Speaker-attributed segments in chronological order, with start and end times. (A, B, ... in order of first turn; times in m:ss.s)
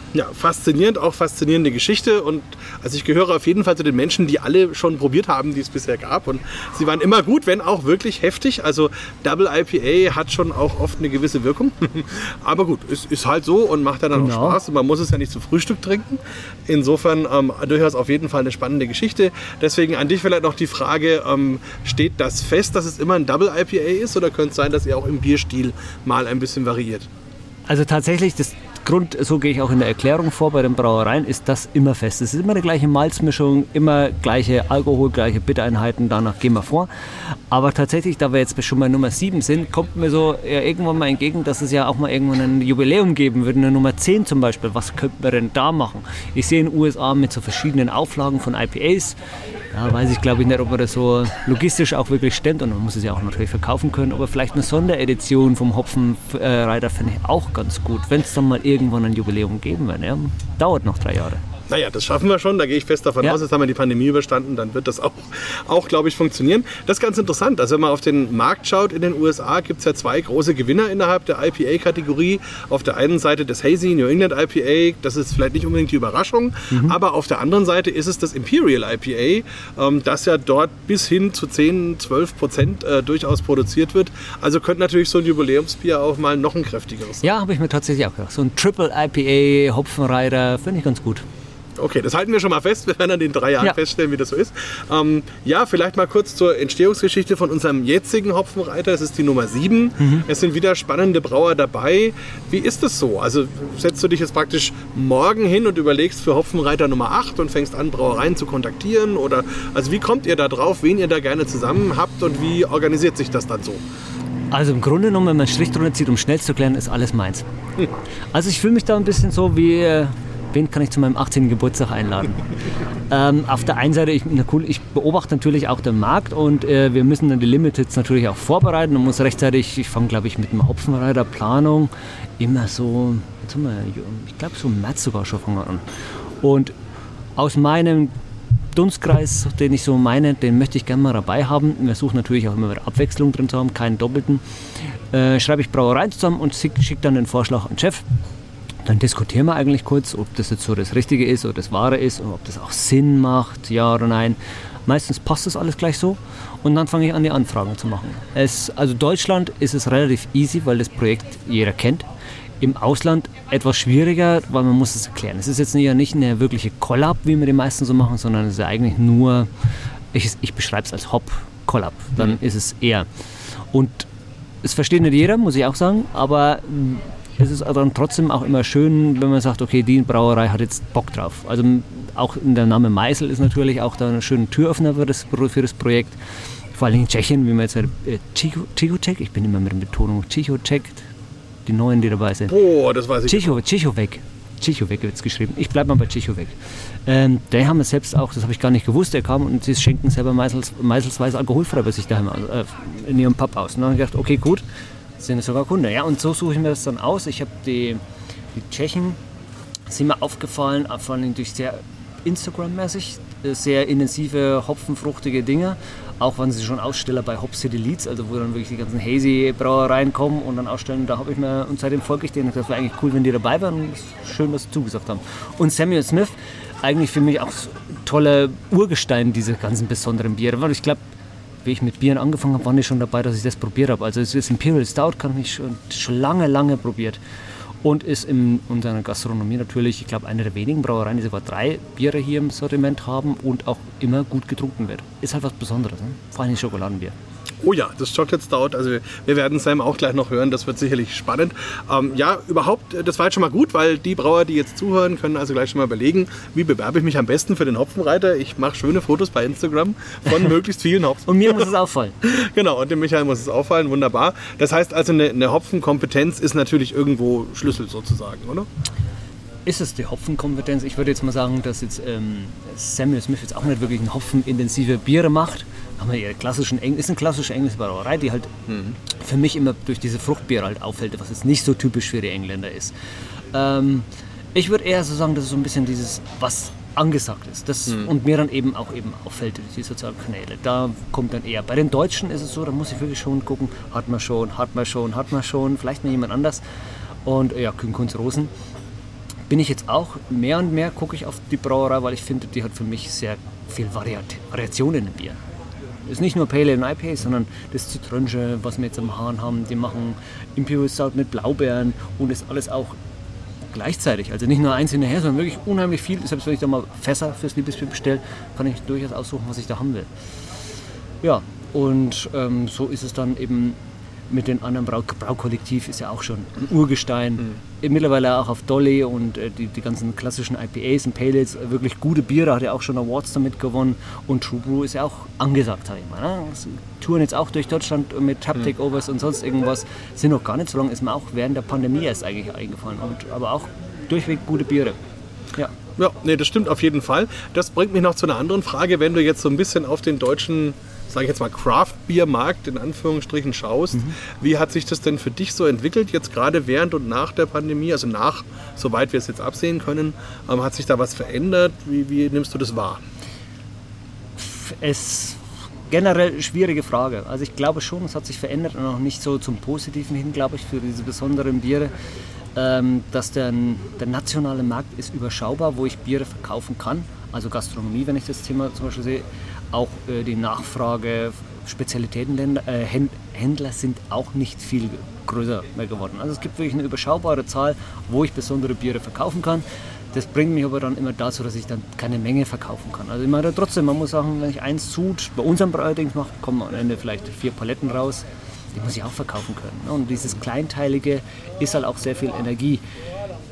0:00.1-0:27.1 A
0:14.1-0:14.6 B
0:27.7-0:49.2 B
0:49.7-1:01.4 B
1:01.7-1:27.3 A
1:16.7-1:17.0 B
1:27.2-1:31.2 B
1:31.8-1:53.8 A
1:40.0-1:40.2 B
1:54.5-1:57.4 B
1:58.3-2:02.4 B
2:03.1-2:15.8 B
2:16.4-2:16.7 B
2:17.4-2:18.1 B
2:18.7-2:28.0 B
2:28.8-2:42.1 B
2:42.6-2:49.5 B
2:50.1-2:54.1 B
2:54.6-3:06.2 B
3:06.7-3:11.1 B
3:11.6-3:12.6 B
3:12.5-3:13.6 A
3:13.3-3:24.6 B
3:25.2-3:28.0 B
3:28.5-3:29.2 B
3:29.9-3:51.0 B
3:51.6-3:57.2 B
3:57.8-4:07.2 B
4:07.6-4:21.7 A
4:21.3-4:22.1 B
4:22.2-4:28.7 A
4:29.6-4:38.5 B
4:38.7-4:39.0 A
4:39.1-4:42.9 B
4:43.5-4:56.6 B
4:57.2-4:58.5 B
4:59.5-5:05.4 B
5:06.1-5:13.0 B
5:13.7-5:20.1 B
5:21.2-5:45.0 B
5:46.0-6:03.0 A
6:04.4-6:11.9 B
6:12.6-6:42.8 B